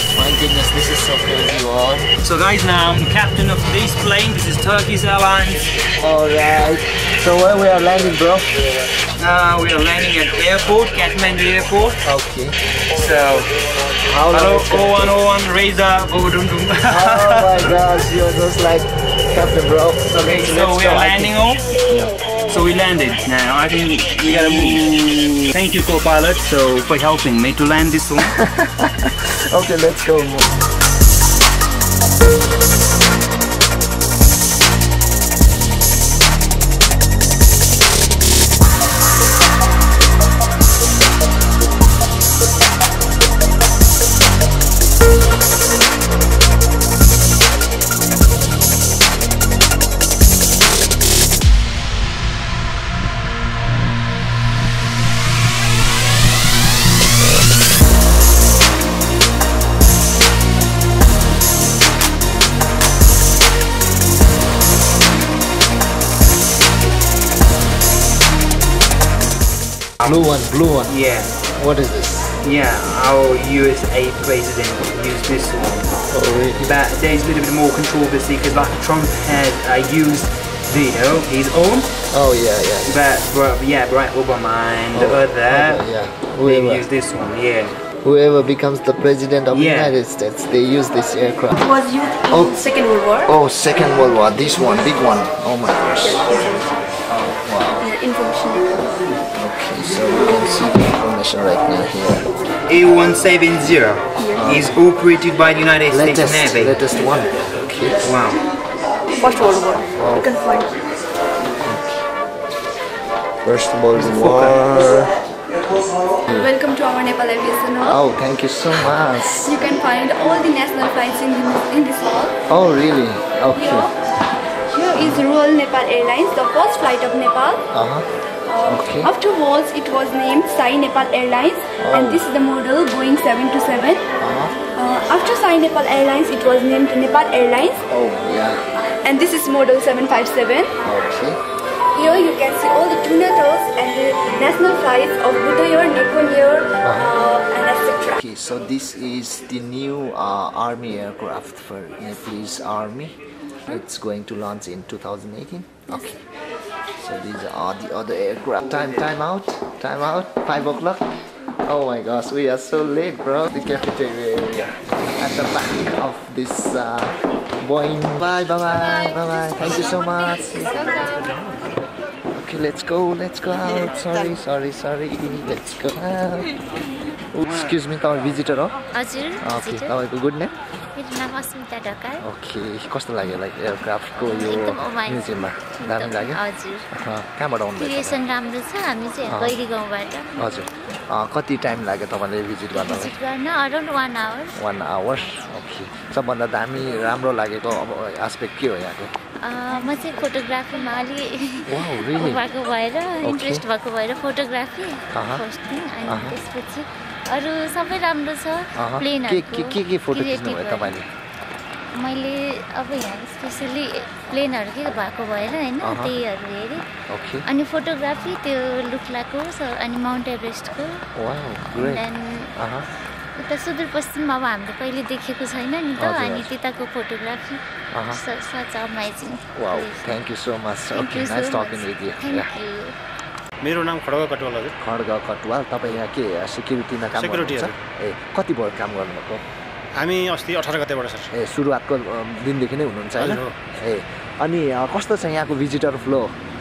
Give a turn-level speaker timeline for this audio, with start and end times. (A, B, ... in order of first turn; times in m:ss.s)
0:00.1-0:02.1 A
0:02.2-0:05.7 B
0:05.9-0:08.6 A
0:09.2-0:12.0 B
0:12.0-0:12.6 A
0:12.9-0:13.5 B
0:14.1-0:15.2 A
0:14.2-0:17.7 B
0:16.8-0:21.4 A
0:20.1-0:21.6 B
0:21.9-0:22.2 A
0:22.5-0:28.4 B
0:24.5-0:24.8 A
0:28.4-0:30.5 A
1:10.0-1:10.9 A
1:10.9-1:11.4 B
1:11.5-1:12.3 A
1:12.4-1:15.9 B
1:16.1-1:16.8 A
1:16.6-1:21.9 B
1:22.1-1:23.0 A
1:22.8-1:25.8 B
1:24.9-1:26.9 A
1:26.4-1:27.8 B
1:28.0-1:31.7 A
1:29.5-1:30.0 B
1:31.6-1:33.3 C
1:32.3-1:32.7 A
1:33.2-1:36.4 A
1:36.2-1:36.6 C
1:37.1-1:37.9 A
1:37.8-1:38.6 C
1:39.3-1:42.3 A
1:42.7-1:46.8 B
1:44.4-1:44.8 A
1:45.9-1:48.0 A
1:48.0-1:48.4 B
1:49.2-1:50.7 C
1:50.0-1:50.3 A
1:51.6-1:52.1 A
1:53.4-1:55.2 A
1:54.0-1:54.6 B
1:56.3-1:56.5 A
1:56.3-1:58.0 C
1:57.8-1:59.6 A
1:59.4-2:02.4 C
2:02.5-2:03.9 A
2:03.5-2:03.9 C
2:04.7-2:07.6 C
2:07.7-2:08.1 A
2:08.5-2:14.0 C
2:08.6-2:09.1 A
2:11.8-2:12.2 A
2:14.2-2:14.6 A
2:14.7-2:17.8 C
2:17.9-2:18.7 A
2:19.0-2:20.8 C
2:20.8-2:21.4 A
2:21.9-2:28.2 C
2:26.8-2:27.2 A
2:28.2-2:36.2 A
2:37.0-2:51.2 A
2:52.3-2:58.8 A
2:58.9-2:59.9 D
2:59.4-3:00.6 A
3:01.0-3:02.2 D
3:02.2-3:08.2 A
3:04.3-3:06.9 D
3:07.8-3:10.4 D
3:09.3-3:09.6 A
3:10.4-3:13.2 A
3:12.7-3:14.6 D
3:14.6-3:19.1 A
3:19.4-3:31.0 D
3:21.7-3:22.5 A
3:23.2-3:23.6 A
3:25.1-3:25.4 A
3:26.1-3:26.4 A
3:28.8-3:31.1 A
3:31.9-3:36.8 D
3:35.8-3:36.2 A
3:37.1-3:37.5 A
3:37.5-3:41.0 D
3:41.2-3:42.0 A
3:41.8-3:42.5 D
3:42.6-3:42.9 A
3:43.4-3:50.2 D
3:46.0-3:46.5 A
3:47.9-3:48.2 A
3:49.6-3:52.5 A
3:50.9-3:53.0 D
3:53.6-3:54.7 E
3:54.8-3:59.4 A
3:57.2-3:57.7 E
4:00.0-4:01.3 E
4:01.3-4:06.4 A
4:03.2-4:03.6 E